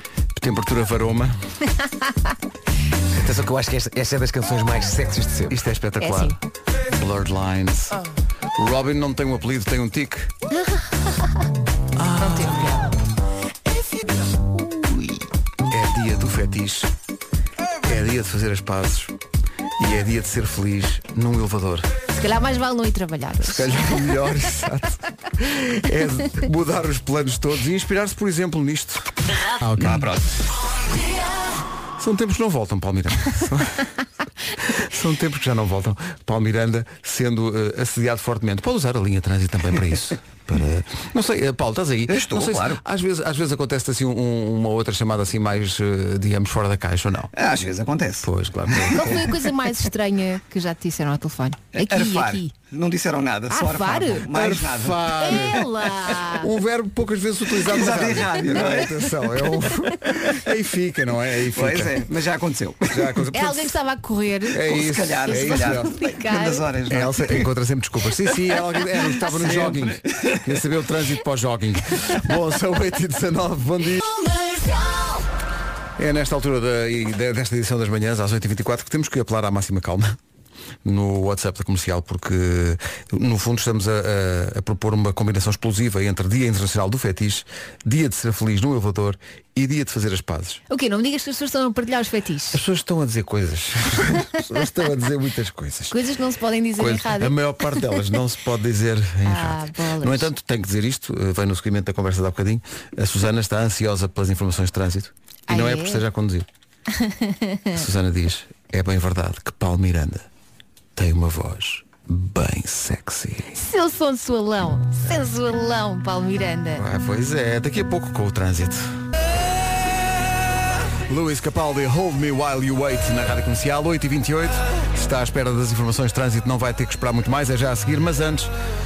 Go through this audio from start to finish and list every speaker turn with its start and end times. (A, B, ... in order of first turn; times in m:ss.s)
0:00.4-0:01.3 A
0:03.2-0:05.5 B
0:05.5-0:06.4 A
0:06.0-0:06.4 C
0:06.9-0:08.0 A
0:08.6-0:10.3 A
0:10.5-0:11.4 C
0:12.0-0:12.8 A
0:12.2-0:12.8 C
0:15.7-0:16.9 A
0:17.8-0:19.2 A
0:19.8-0:21.9 A
0:22.1-0:24.3 C
0:23.4-0:29.1 A
0:29.6-0:30.1 A
0:32.0-0:33.9 A
0:34.6-0:47.3 A
0:42.1-0:42.8 D
0:47.4-0:49.1 D
0:48.2-0:49.3 A
0:48.9-0:52.5 C
0:51.8-0:55.6 D
0:53.5-0:54.3 C
0:54.3-0:55.6 A
0:55.2-0:56.5 C
0:56.3-1:02.1 A
0:57.6-0:59.2 D
1:01.5-1:03.0 D
1:02.9-1:03.7 A
1:03.3-1:04.7 C
1:04.5-1:06.0 A
1:04.5-1:07.5 D
1:05.2-1:06.7 C
1:06.9-1:14.1 A
1:09.2-1:10.4 D
1:16.0-1:20.2 A
1:20.8-1:30.6 A
1:30.7-1:32.6 C
1:32.5-1:36.0 A
1:35.9-1:37.8 C
1:36.8-1:46.5 A
1:39.2-1:40.3 C
1:45.5-1:46.0 C
1:46.9-1:47.8 C
1:47.7-1:50.3 A
1:51.0-1:53.6 A
1:53.5-1:56.8 C
1:56.8-1:58.8 A
2:01.1-2:08.5 A